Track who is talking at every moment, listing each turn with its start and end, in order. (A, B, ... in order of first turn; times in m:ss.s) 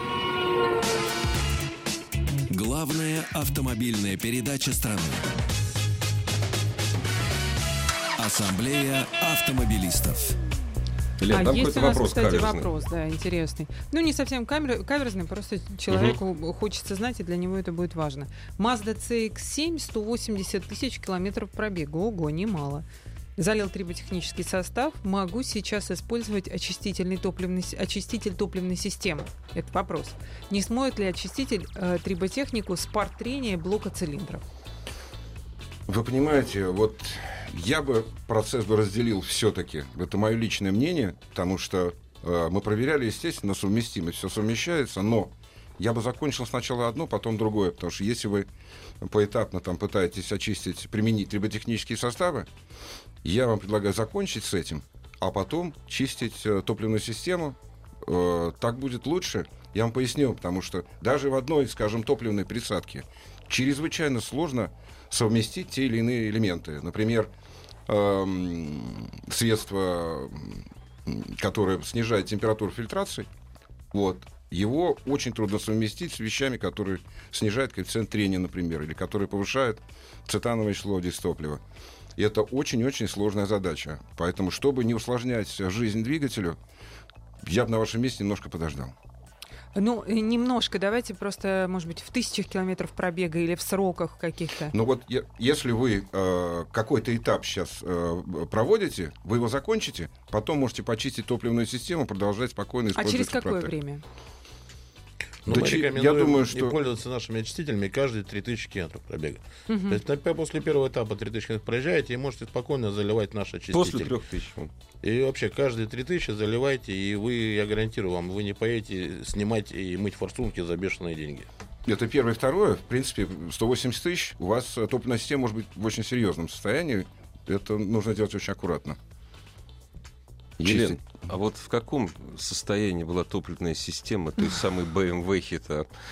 0:02.5-0:05.2 A
0:08.2-0:10.4 A
0:11.2-0:12.7 B
0:11.3-0:22.8 C
0:15.9-0:16.2 B
0:23.4-0:34.4 C
0:35.9-0:48.5 D
0:49.0-0:52.5 D
0:53.2-1:07.3 D
1:07.9-1:13.3 D
1:13.9-1:21.6 D
1:22.2-1:26.6 D
1:27.4-1:28.9 D
1:29.7-1:34.7 C
1:34.7-1:43.7 D
1:43.0-1:44.0 C
1:45.4-1:54.1 E
1:45.5-1:46.8 D
1:49.7-1:50.0 C
1:53.7-1:54.7 B
1:55.0-2:01.5 E
2:01.9-2:09.0 D
2:10.6-2:11.0 D
2:10.6-2:15.9 B